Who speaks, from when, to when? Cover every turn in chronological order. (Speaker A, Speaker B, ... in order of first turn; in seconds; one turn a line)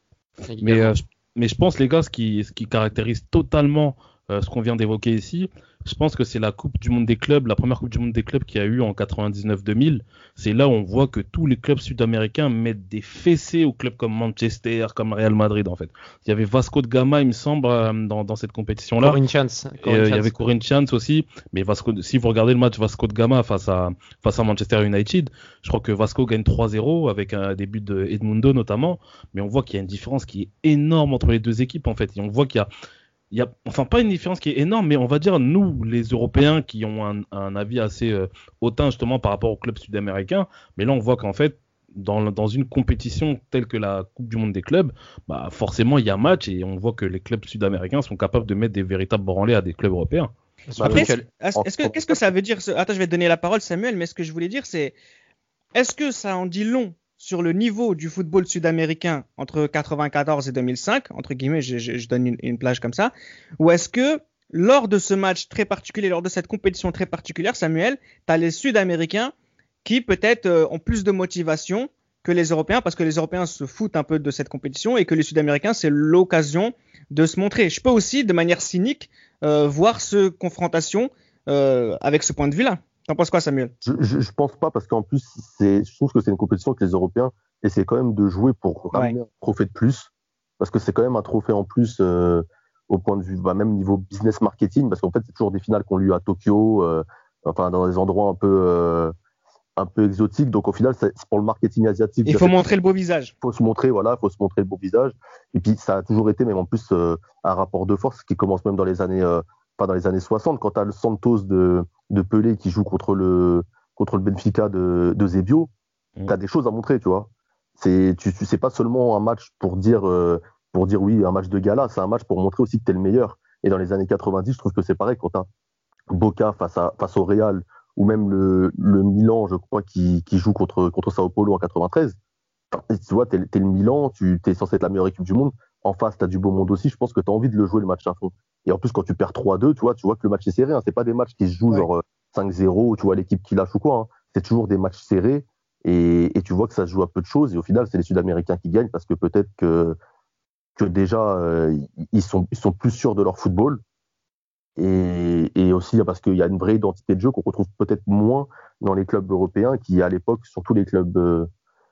Speaker A: 0.5-0.9
Speaker B: 0.6-19.2
Speaker A: 19.0-20.3
Speaker B: 19.8-32.7
Speaker B: 33.3-50.3
Speaker A: 50.7-51.2
Speaker C: 50.8-52.3
Speaker D: 50.8-54.9
Speaker D: 55.7-69.3
Speaker D: 69.8-83.7
Speaker C: 83.8-99.1
Speaker C: 99.8-102.5
Speaker D: 102.2-103.3
Speaker C: 103.4-115.7
Speaker C: 116.3-125.5
Speaker C: 126.1-132.2
Speaker C: 132.7-149.9
Speaker C: 150.8-153.8
Speaker C: 154.8-161.5